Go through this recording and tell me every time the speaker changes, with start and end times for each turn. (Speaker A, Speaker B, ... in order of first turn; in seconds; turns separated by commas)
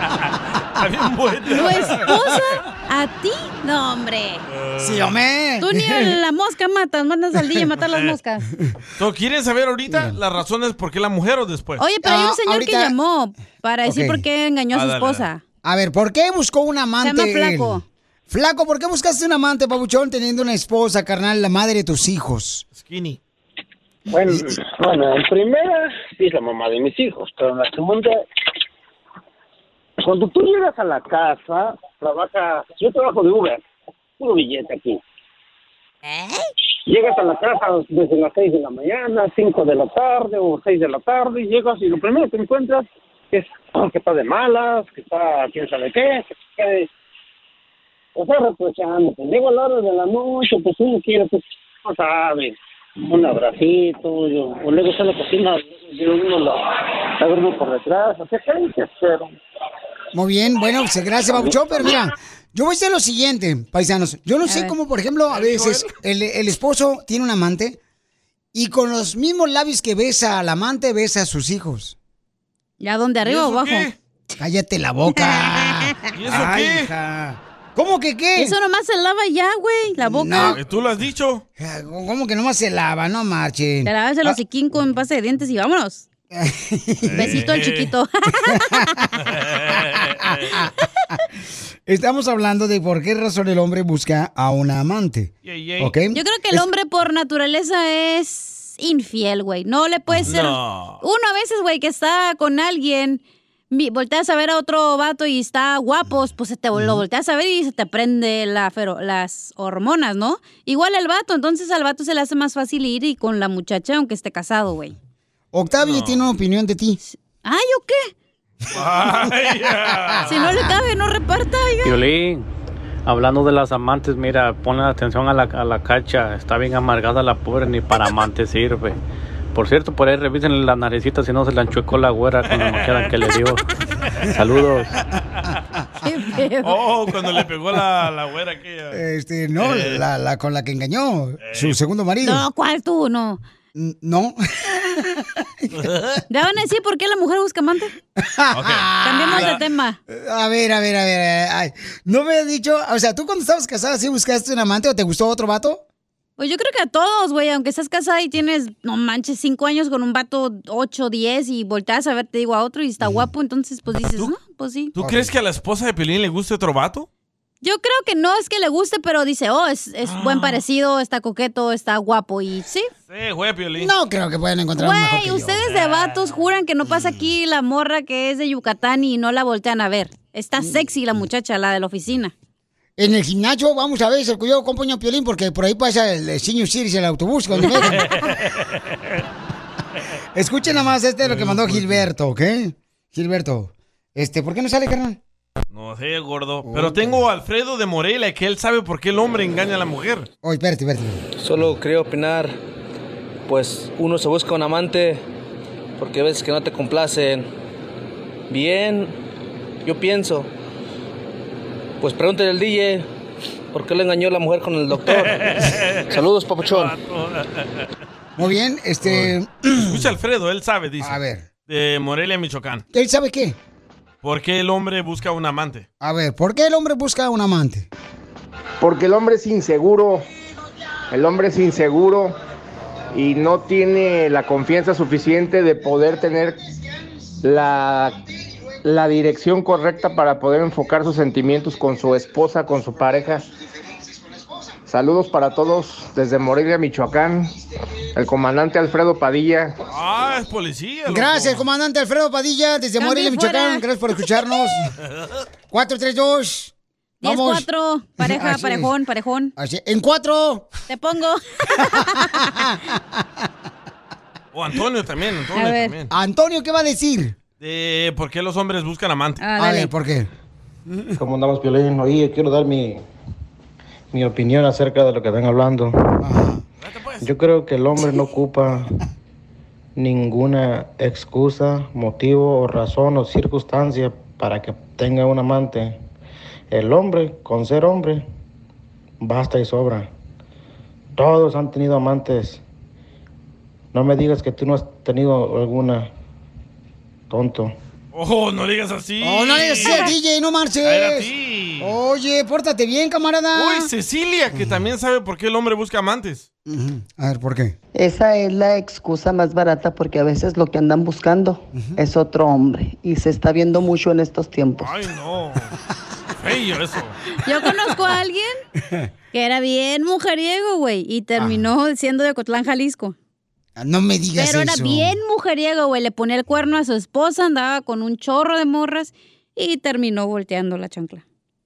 Speaker A: 0.8-2.1, Speaker B: 1.5-4.4, Speaker A: 4.5-5.2, Speaker C: 4.8-6.1, Speaker B: 5.6-8.4, Speaker A: 7.9-8.2, Speaker A: 9.0-11.8, Speaker C: 9.9-10.2, Speaker B: 11.8-15.4, Speaker C: 12.0-12.9, Speaker C: 13.8-14.2, Speaker A: 14.7-15.3, Speaker C: 15.6-22.6, Speaker B: 17.0-17.8, Speaker A: 22.7-23.2, Speaker D: 24.1-28.2, Speaker D: 30.0-33.6, Speaker D: 34.2-35.0, Speaker D: 36.9-46.9, Speaker D: 48.1-59.4, Speaker C: 60.1-67.8, Speaker D: 61.3-62.0, Speaker B: 64.5-64.7, Speaker A: 65.3-65.9, Speaker C: 68.5-72.0, Speaker B: 72.8-73.9, Speaker A: 73.2-74.0, Speaker C: 74.4-78.5, Speaker A: 76.1-76.9, Speaker B: 78.3-80.6, Speaker C: 80.0-80.6, Speaker A: 80.3-81.4, Speaker C: 81.6-84.4, Speaker B: 83.8-86.0, Speaker C: 86.3-87.4, Speaker A: 87.0-87.9, Speaker B: 87.2-89.0, Speaker C: 88.5-89.2, Speaker A: 89.2-90.6, Speaker C: 89.9-90.7, Speaker C: 91.9-96.7, Speaker A: 95.4-95.9, Speaker B: 96.1-115.0, Speaker A: 100.2-101.0, Speaker C: 106.7-107.0, Speaker C: 115.5-117.0, Speaker A: 115.8-116.2, Speaker B: 117.1-118.1, Speaker A: 118.7-120.3, Speaker C: 120.1-120.6, Speaker B: 120.3-122.0, Speaker E: 121.8-122.5, Speaker E: 123.0-129.0, Speaker E: 129.5-133.6, Speaker A: 132.5-133.0, Speaker E: 134.3-134.9, Speaker B: 136.0-136.7, Speaker A: 136.6-139.0, Speaker C: 138.9-142.4, Speaker A: 139.6-140.0, Speaker A: 141.4-141.8, Speaker B: 142.2-143.4, Speaker C: 143.7-145.7, Speaker A: 145.7-146.2, Speaker B: 146.3-147.9, Speaker C: 148.2-149.6, Speaker A: 148.5-149.6, Speaker B: 149.0-150.0, Speaker C: 150.1-155.8, Speaker B: 156.4-164.9, Speaker A: 164.9-167.1, Speaker C: 165.0-165.3, Speaker B: 167.6-172.9, Speaker A: 170.0-170.6, Speaker A: 173.1-173.9, Speaker C: 173.8-175.6, Speaker B: 174.8-182.3, Speaker A: 175.7-176.2, Speaker C: 183.0-188.0, Speaker A: 187.9-188.6, Speaker C: 190.3-195.2, Speaker A: 191.2-192.1, Speaker A: 195.7-200.3, Speaker C: 196.6-197.2, Speaker C: 200.4-201.2, Speaker F: 201.4-202.5, Speaker F: 203.5-205.2, Speaker F: 206.0-207.4, Speaker F: 208.5-209.1, Speaker F: 209.8-210.4, Speaker F: 212.0-213.0, Speaker F: 213.7-215.3, Speaker A: 215.0-217.8, Speaker F: 216.1-216.9, Speaker C: 218.4-220.1, Speaker A: 219.0-222.8, Speaker C: 221.0-221.4, Speaker C: 222.9-223.6, Speaker A: 224.2-225.8, Speaker C: 226.0-227.9, Speaker G: 228.8-230.2, Speaker G: 231.1-232.3, Speaker G: 233.1-236.6, Speaker G: 237.4-238.2, Speaker G: 238.8-243.4, Speaker G: 244.9-247.5, Speaker G: 248.1-249.8, Speaker A: 249.9-251.7, Speaker C: 251.1-254.9, Speaker B: 253.0-253.8, Speaker C: 255.7-257.6, Speaker B: 257.2-259.5, Speaker C: 258.2-258.9, Speaker C: 259.6-260.7, Speaker B: 260.9-262.5, Speaker C: 262.2-263.0, Speaker A: 264.5-266.1, Speaker B: 265.6-265.9, Speaker C: 266.1-267.4, Speaker A: 267.6-269.4, Speaker B: 269.4-269.9, Speaker C: 269.6-270.3, Speaker H: 271.1-273.0, Speaker H: 274.1-276.3, Speaker C: 276.2-276.6, Speaker A: 276.8-277.3, Speaker H: 277.2-279.0, Speaker H: 279.9-286.0, Speaker H: 286.7-288.2, Speaker H: 289.2-290.1, Speaker H: 291.1-292.6, Speaker H: 293.9-296.1, Speaker H: 297.3-297.7, Speaker A: 298.1-300.1, Speaker C: 299.2-303.9, Speaker A: 300.8-302.0, Speaker A: 303.5-306.5, Speaker C: 306.7-307.8, Speaker I: 307.9-314.9, Speaker A: 314.8-315.7, Speaker A: 316.4-317.2, Speaker B: 317.4-318.6, Speaker B: 319.3-323.1, Speaker C: 321.4-321.7, Speaker C: 323.8-325.1, Speaker B: 324.4-331.2